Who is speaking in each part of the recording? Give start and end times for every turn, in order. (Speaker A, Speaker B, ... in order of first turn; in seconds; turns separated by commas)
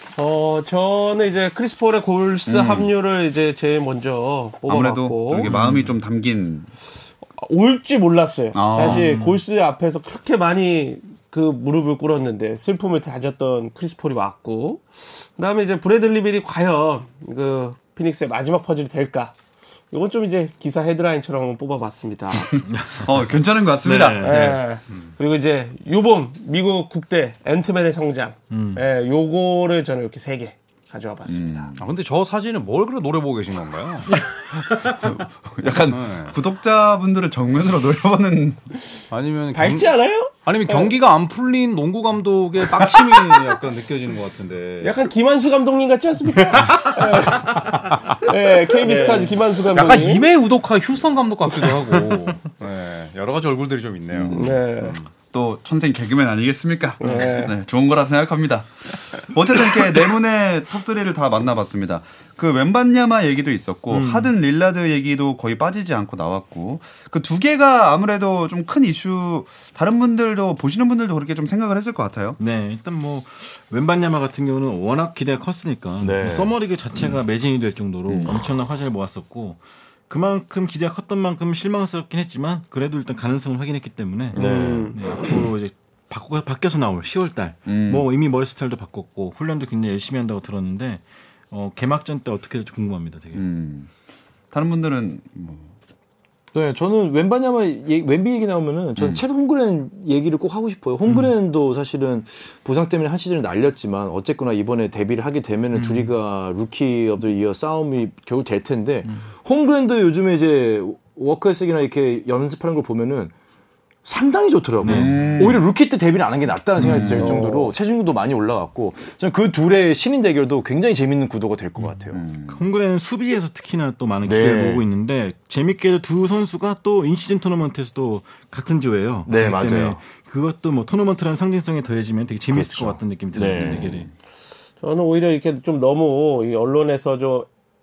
Speaker A: 0.2-5.5, Speaker B: 2.5-2.9, Speaker B: 4.7-6.7, Speaker C: 5.5-5.9, Speaker A: 7.4-14.8, Speaker B: 8.5-9.2, Speaker C: 8.8-9.4, Speaker A: 15.4-19.3, Speaker A: 19.9-22.5, Speaker B: 22.6-24.6, Speaker C: 22.7-23.1, Speaker C: 23.8-24.6, Speaker A: 24.2-31.7, Speaker C: 28.5-28.8, Speaker B: 31.3-31.9, Speaker D: 31.8-34.1, Speaker C: 34.1-35.1, Speaker B: 34.9-38.6, Speaker D: 35.9-36.4, Speaker D: 39.1-45.0, Speaker A: 39.5-40.9, Speaker A: 44.8-47.7, Speaker C: 46.5-46.9, Speaker D: 47.7-48.0, Speaker A: 48.2-50.2, Speaker D: 48.8-55.1, Speaker B: 54.1-54.6, Speaker A: 54.3-55.0, Speaker B: 55.3-72.4, Speaker A: 57.0-57.5, Speaker C: 63.9-64.3, Speaker C: 72.4-93.4, Speaker E: 76.0-76.5, Speaker B: 78.1-78.4, Speaker E: 84.3-84.9, Speaker A: 84.3-85.3, Speaker B: 87.7-88.1, Speaker B: 93.3-93.9, Speaker B: 94.5-95.7, Speaker E: 96.5-113.3, Speaker B: 99.0-99.2, Speaker C: 101.1-101.3, Speaker C: 105.7-106.1, Speaker E: 114.0-122.2, Speaker C: 114.8-115.3, Speaker B: 114.8-115.7, Speaker B: 116.8-117.4, Speaker C: 116.8-117.1, Speaker A: 117.2-117.7, Speaker C: 121.8-134.1, Speaker B: 122.1-122.6, Speaker E: 124.2-124.8, Speaker E: 129.3-130.0, Speaker E: 132.5-134.0, Speaker B: 133.6-134.1, Speaker A: 134.8-137.5